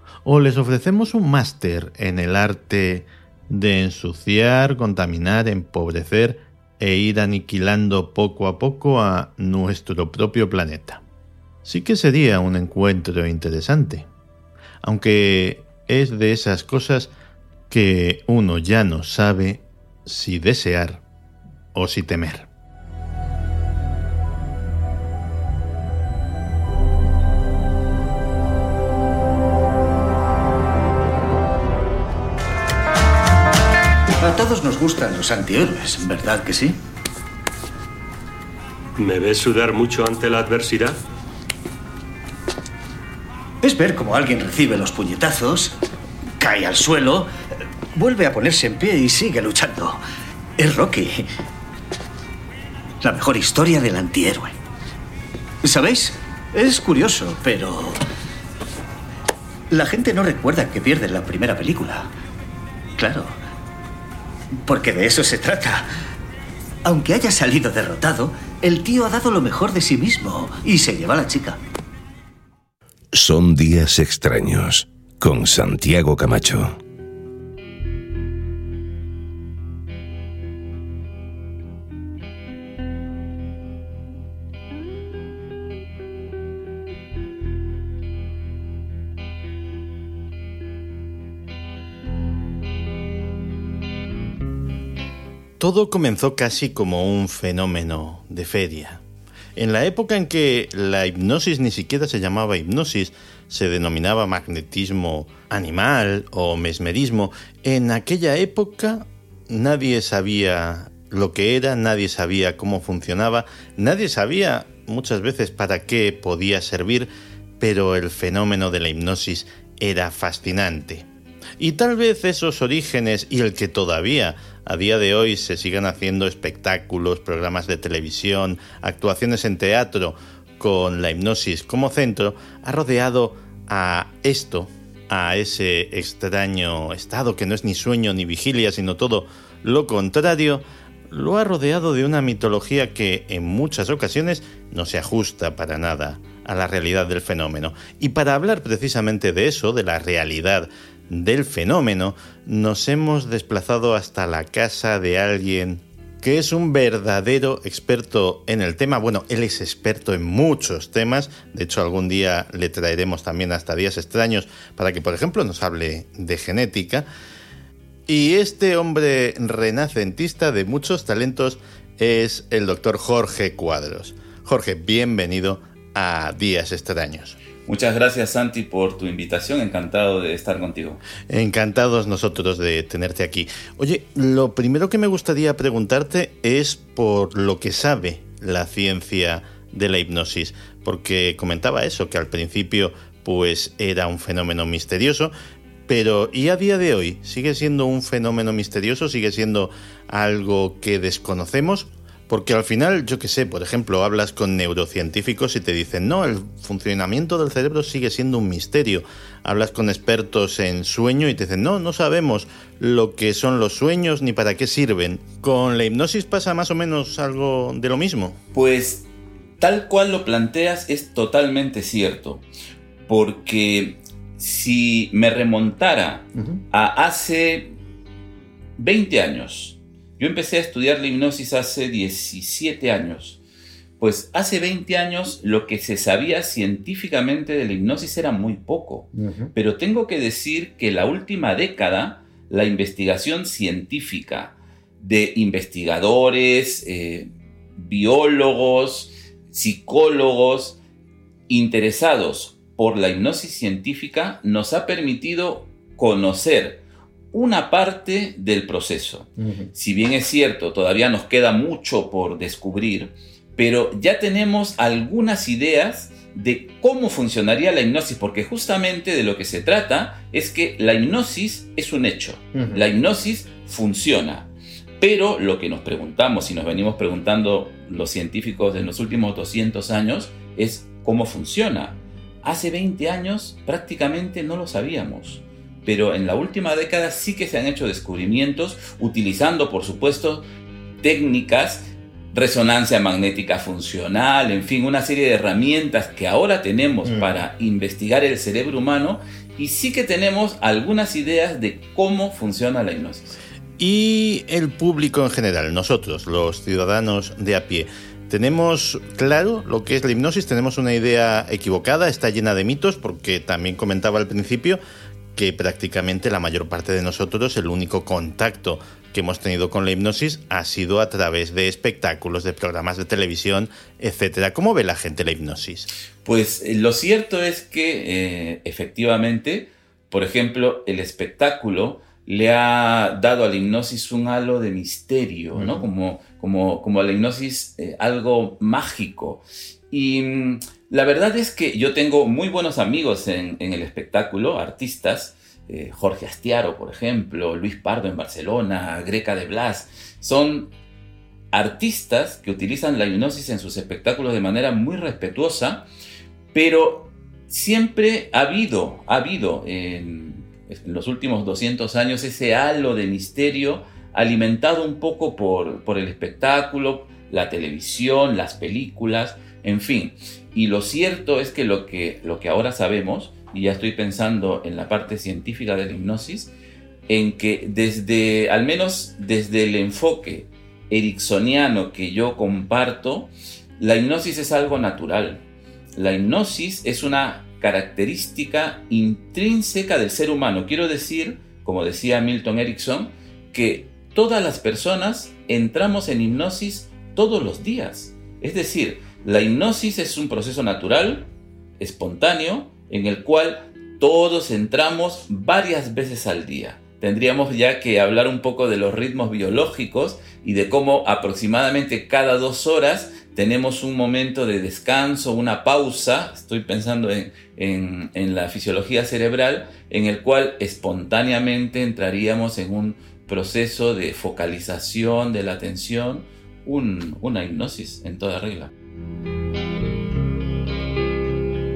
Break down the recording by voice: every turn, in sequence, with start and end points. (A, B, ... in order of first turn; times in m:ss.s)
0:00.2-0:11.0 A
0:11.6-0:14.1 A
0:14.8-0:17.1 A
0:17.7-0:21.0 A
0:21.7-0:22.5 A
0:34.2-0:36.8 B
0:39.0-0:41.0 C
0:43.6-0:45.8 B
0:46.4-0:47.3 B
0:47.9-0:50.0 B
0:50.6-0:51.3 B
0:53.0-0:54.5 B
0:55.6-0:58.0 B
0:59.7-1:02.1 B
1:03.0-1:03.4 B
1:04.6-1:05.9 B
1:06.8-1:11.6 B
1:13.1-1:16.8 D
1:35.6-1:39.0 A
1:39.6-2:01.1 A
2:01.6-2:47.1 A
2:48.1-2:57.4 A
2:57.7-3:01.0 E
3:01.3-3:15.3 A
3:15.9-3:38.4 A
3:38.5-3:39.1 E
3:39.6-3:42.4 E
3:43.1-3:47.7 E
3:48.8-3:53.4 E
3:54.0-4:10.8 E
3:59.2-3:59.5 A
4:11.5-4:50.5 E
4:19.4-4:19.7 A
4:32.6-4:32.8 A
4:51.0-5:03.4 E
5:03.8-5:14.8 A
5:15.4-5:25.9 A
5:26.2-5:50.7 E
5:35.6-5:35.8 A
5:51.5-5:55.9 E
5:56.5-6:16.5 E
6:17.1-6:25.4 E
6:26.0-6:41.3 E
6:41.8-7:08.7 E